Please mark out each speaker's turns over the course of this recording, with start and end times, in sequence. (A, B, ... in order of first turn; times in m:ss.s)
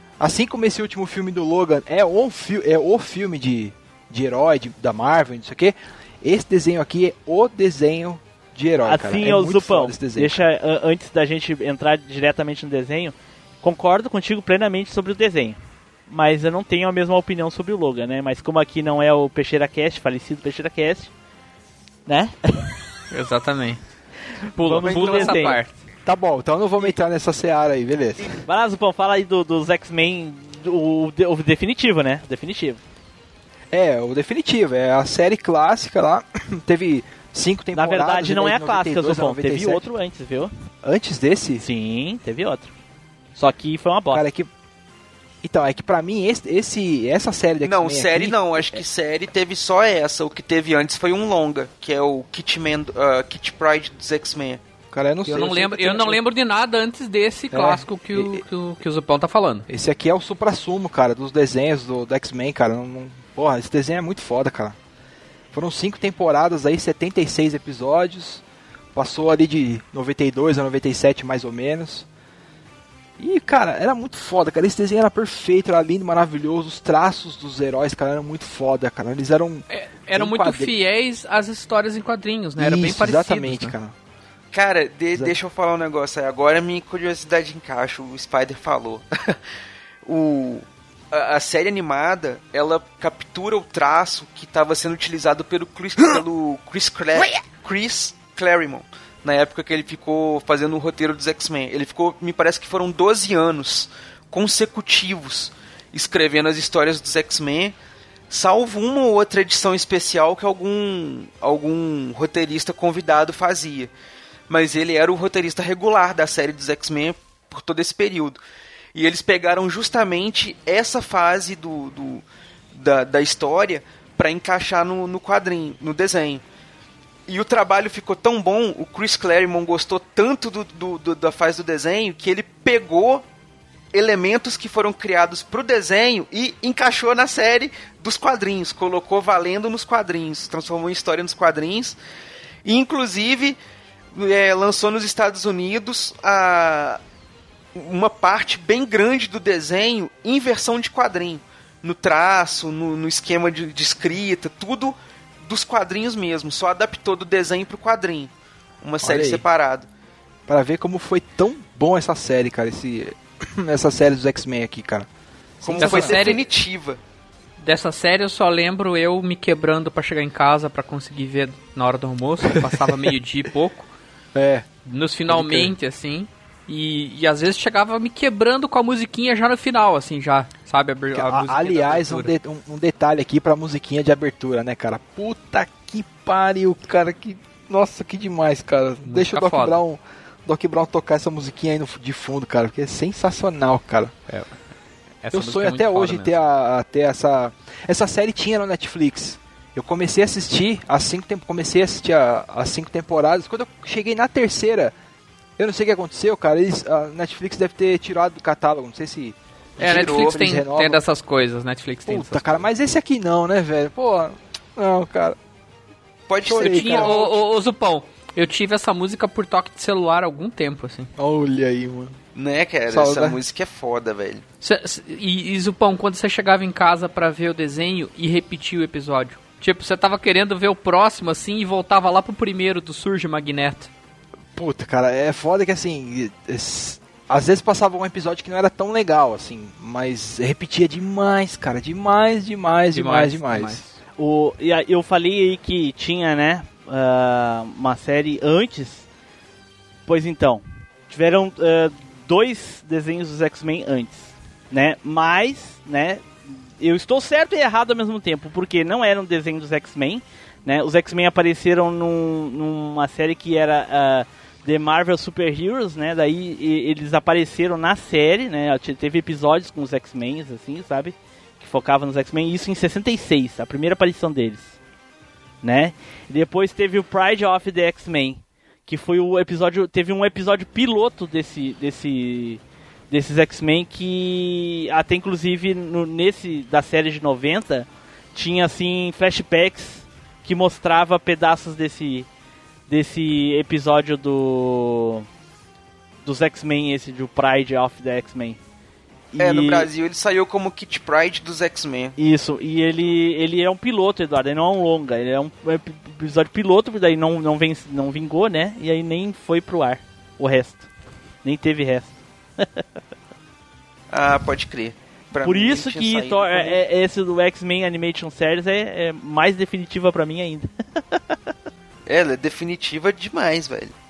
0:00.2-0:10.4 A
0:08.8-0:21.1 B
0:22.1-0:22.7 B
0:23.1-0:23.8 C
0:24.6-0:25.7 C
0:24.6-0:25.6 B
0:24.8-0:25.5 D
0:26.0-0:28.4 A
0:28.4-0:32.8 B
0:33.7-0:39.9 A
0:37.7-0:40.5 B
0:40.8-0:41.6 A
0:41.6-0:42.7 B
0:43.4-0:44.2 B
0:44.1-0:44.5 A
0:45.4-0:48.8 A
0:47.6-0:54.6 D
0:54.9-0:56.2 A
0:55.3-0:59.7 C
0:57.5-0:58.4 A
0:59.7-1:04.8 A
1:05.5-1:08.4 A
1:09.0-1:12.1 A
1:13.2-1:20.7 A
1:19.7-1:23.7 C
1:22.6-1:24.0 A
1:24.5-1:29.4 D
1:30.0-1:47.8 D
1:48.3-1:53.9 D
1:54.5-1:58.4 D
1:59.0-2:02.2 D
2:02.7-2:06.4 D
2:07.3-2:13.2 D
2:13.9-2:22.0 D
2:22.6-2:23.6 D
2:24.1-2:27.0 D
2:27.7-2:39.9 D
2:39.0-2:39.4 A
2:40.5-2:45.1 A
2:45.6-2:46.3 A
2:45.6-2:47.0 D
2:45.8-2:46.4 C
2:47.6-2:53.9 C
2:52.4-2:53.1 A
2:54.4-2:54.7 A
2:54.9-3:02.3 C
2:55.3-2:55.7 A
3:01.1-3:14.1 A
3:09.0-3:09.8 C
3:14.3-3:14.5 C
3:15.2-3:16.3 C
3:15.3-3:25.0 A
3:25.6-3:31.0 A
3:29.8-3:32.6 C
3:29.8-3:30.5 D
3:32.1-3:35.4 A
3:36.3-3:37.4 D
3:36.4-3:37.2 A
3:36.6-3:41.1 C
3:41.2-3:42.2 A
3:42.4-3:44.4 D
3:42.9-3:43.4 A
3:44.6-3:53.9 C
3:54.6-4:03.8 A
4:02.9-4:04.0 C
4:04.2-4:09.0 B
4:10.1-4:34.8 B
4:35.6-4:52.3 B
4:52.9-4:55.2 B
4:56.2-4:58.6 B
4:59.3-4:59.9 B
4:59.4-5:02.1 D
5:02.2-5:10.9 B
5:11.4-5:12.8 B
5:14.1-5:16.8 D
5:15.4-5:21.4 B
5:22.1-5:24.0 D